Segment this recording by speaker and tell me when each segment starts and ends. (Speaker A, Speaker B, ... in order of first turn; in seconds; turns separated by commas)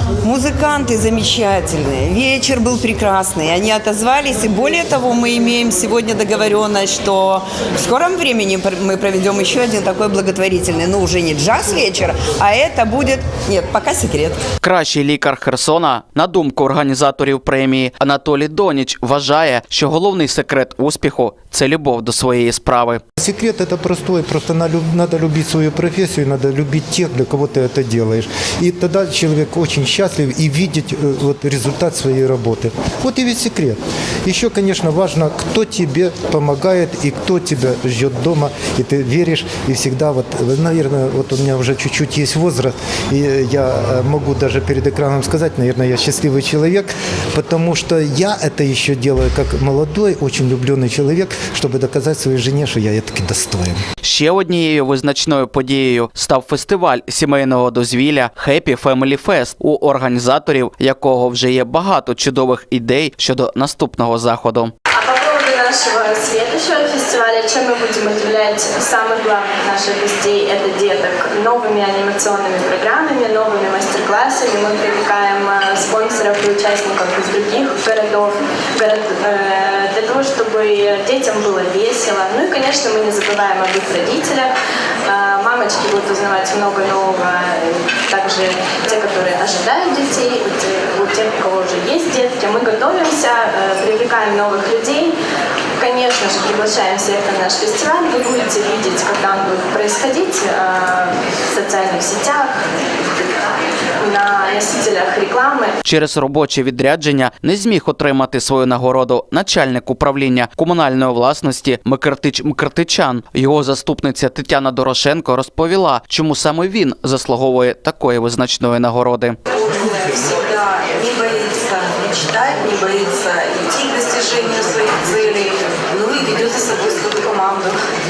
Speaker A: 0.2-14.4, Speaker B: 14.6-23.0, Speaker C: 23.2-53.8, Speaker B: 54.0-64.7, Speaker D: 65.0-84.5, Speaker D: 85.0-95.2, Speaker D: 95.8-102.6, Speaker D: 104.0-105.7, Speaker B: 105.8-119.3, Speaker E: 119.5-127.8